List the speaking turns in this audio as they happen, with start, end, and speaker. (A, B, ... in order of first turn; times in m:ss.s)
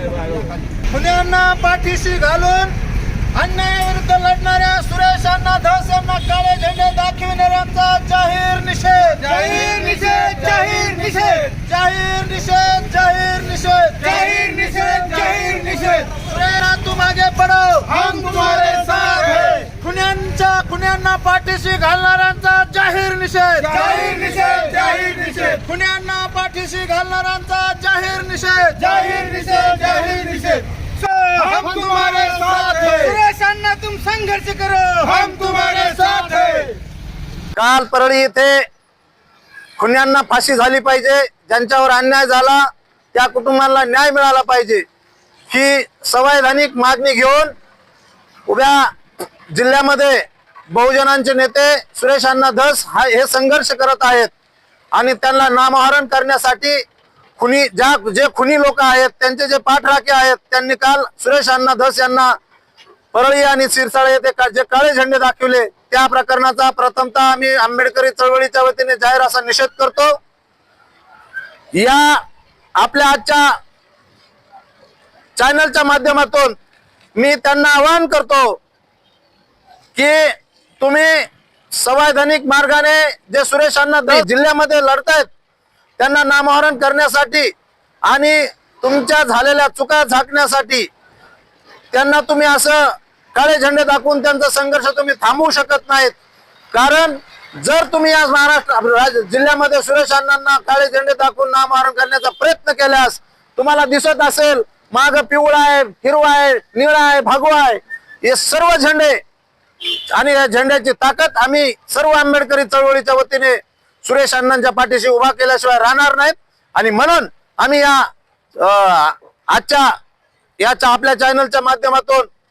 0:00.9-0:02.7 A
0:03.4-0:09.3 A
0:09.2-0:11.7 B
0:11.7-0:14.0 A
0:14.0-0:16.3 B
0:16.3-0:17.9 A
0:17.8-0:20.3 B
0:19.8-0:23.7 A
0:23.6-0:25.7 B
0:25.7-0:28.8 A
0:28.8-0:36.8 B
0:37.6-0:38.6 A
0:39.8-0:44.8 A
0:45.5-0:47.5 A
0:48.5-0:48.9 A
0:49.5-0:54.3 A
0:54.9-0:56.8 A
0:57.4-1:02.3 A
1:03.1-1:10.2 A
1:11.7-1:12.2 A
1:12.8-1:13.6 A
1:15.4-1:16.6 A
1:17.2-1:18.6 A
1:19.9-1:25.3 A
1:26.0-1:27.5 A
1:28.1-1:30.9 A
1:31.9-1:36.1 A
1:36.7-1:49.2 A
1:50.1-1:59.9 A
2:00.6-2:02.3 A